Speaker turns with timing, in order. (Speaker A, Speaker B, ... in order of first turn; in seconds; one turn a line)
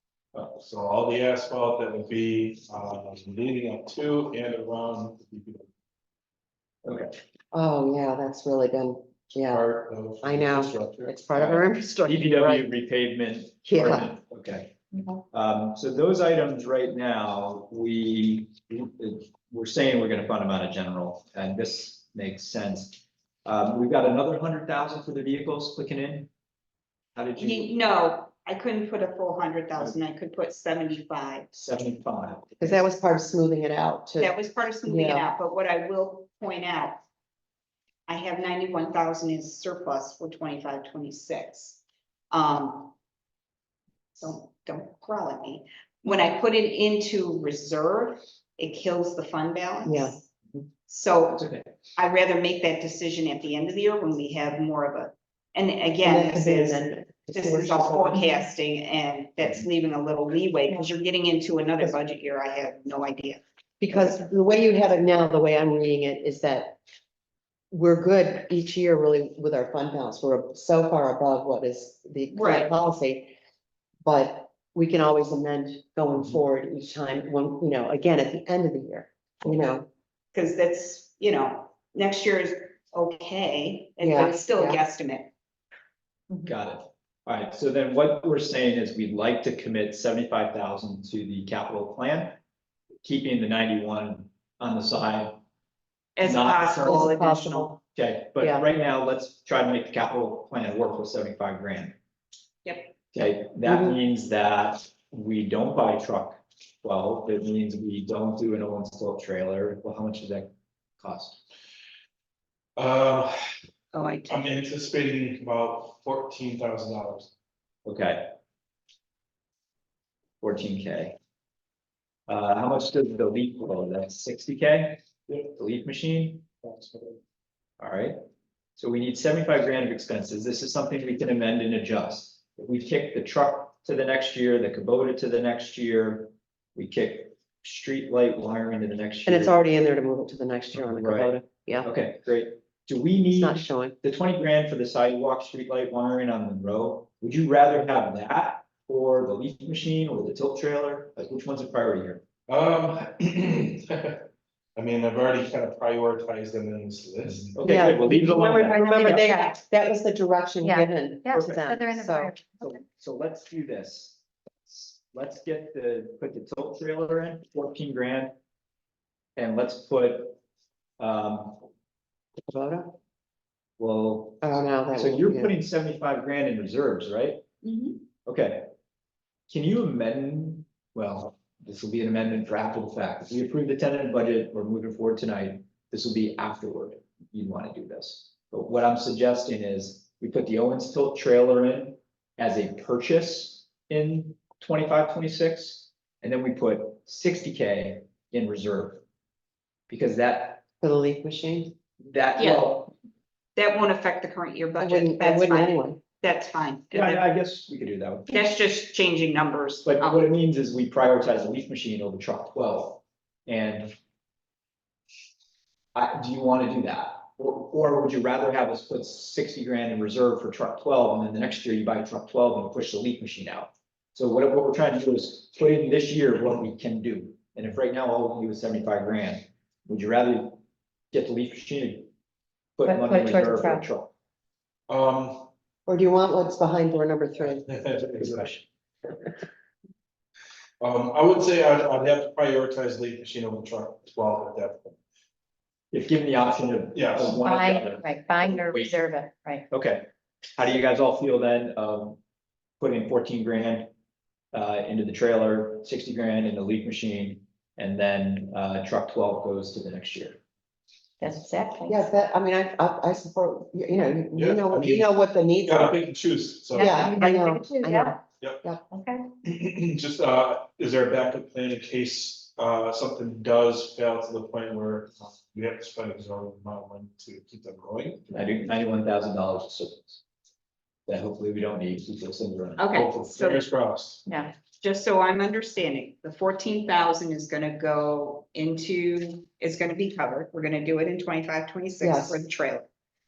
Speaker A: 0.5-5.7
Speaker B: 6.8-7.1
Speaker C: 7.5-9.7
Speaker A: 9.4-11.2
Speaker C: 10.2-12.7
Speaker B: 11.4-14.8
Speaker C: 13.7-14.2
Speaker B: 15.3-26.3
Speaker B: 27.2-27.7
Speaker D: 27.4-31.5
Speaker B: 31.5-32.8
Speaker C: 32.6-34.3
Speaker D: 34.2-37.0
Speaker C: 34.8-35.3
Speaker D: 38.1-42.9
Speaker D: 44.2-50.2
Speaker C: 49.9-50.2
Speaker D: 50.9-63.4
Speaker B: 51.3-51.7
Speaker C: 56.0-58.5
Speaker C: 63.8-66.8
Speaker C: 67.7-73.3
Speaker D: 72.3-72.7
Speaker C: 74.0-79.9
Speaker D: 80.3-85.3
Speaker C: 84.0-84.8
Speaker B: 86.5-92.4
Speaker B: 93.0-95.4
Speaker D: 96.2-97.7
Speaker B: 96.2-97.1
Speaker C: 96.8-97.8
Speaker B: 97.9-102.0
Speaker C: 98.4-98.7
Speaker D: 102.7-102.9
Speaker B: 103.1-111.4
Speaker C: 103.7-104.0
Speaker A: 112.8-113.4
Speaker D: 113.9-114.5
Speaker A: 114.3-117.3
Speaker B: 117.8-118.3
Speaker B: 120.4-121.2
Speaker B: 122.3-125.0
Speaker A: 125.3-125.6
Speaker B: 125.5-126.5
Speaker A: 126.6-127.2
Speaker B: 127.8-128.2
Speaker B: 128.8-139.6
Speaker C: 139.3-141.9
Speaker B: 140.7-152.2
Speaker C: 143.3-144.0
Speaker A: 152.5-157.6
Speaker B: 157.5-159.3
Speaker C: 157.7-162.4
Speaker E: 158.7-159.6
Speaker E: 160.6-162.8
Speaker B: 161.3-161.6
Speaker B: 162.6-168.3
Speaker B: 169.4-170.4
Speaker B: 171.0-171.7
Speaker C: 172.4-173.0
Speaker B: 173.8-177.4
Speaker C: 174.4-175.5
Speaker D: 177.6-178.0
Speaker B: 178.2-178.7
Speaker B: 179.5-199.0
Speaker B: 199.9-200.6
Speaker C: 200.8-201.7
Speaker B: 202.0-202.9
Speaker D: 202.4-202.7
Speaker D: 203.6-207.3
Speaker C: 204.8-206.0
Speaker B: 206.9-208.5
Speaker D: 208.3-210.3
Speaker B: 209.8-213.9
Speaker B: 215.9-230.6
Speaker B: 231.1-232.1
Speaker B: 232.8-234.1
Speaker E: 232.8-233.9
Speaker A: 234.9-235.5
Speaker C: 235.9-237.6
Speaker A: 237.4-238.6
Speaker B: 238.2-238.6
Speaker A: 240.8-245.0
Speaker B: 245.9-249.1
Speaker A: 246.9-247.5
Speaker E: 247.4-249.7
Speaker B: 249.7-252.2
Speaker B: 252.8-253.9
Speaker B: 254.5-260.4
Speaker E: 261.2-262.0
Speaker C: 261.9-266.0
Speaker A: 264.3-265.1
Speaker A: 265.6-267.1
Speaker E: 266.7-268.2
Speaker C: 266.8-268.8
Speaker E: 268.9-269.3
Speaker A: 269.4-278.4
Speaker B: 278.3-280.2
Speaker B: 281.1-282.9
Speaker D: 282.8-283.6
Speaker A: 282.9-284.3
Speaker E: 284.3-284.5
Speaker D: 284.8-292.9
Speaker C: 292.0-292.5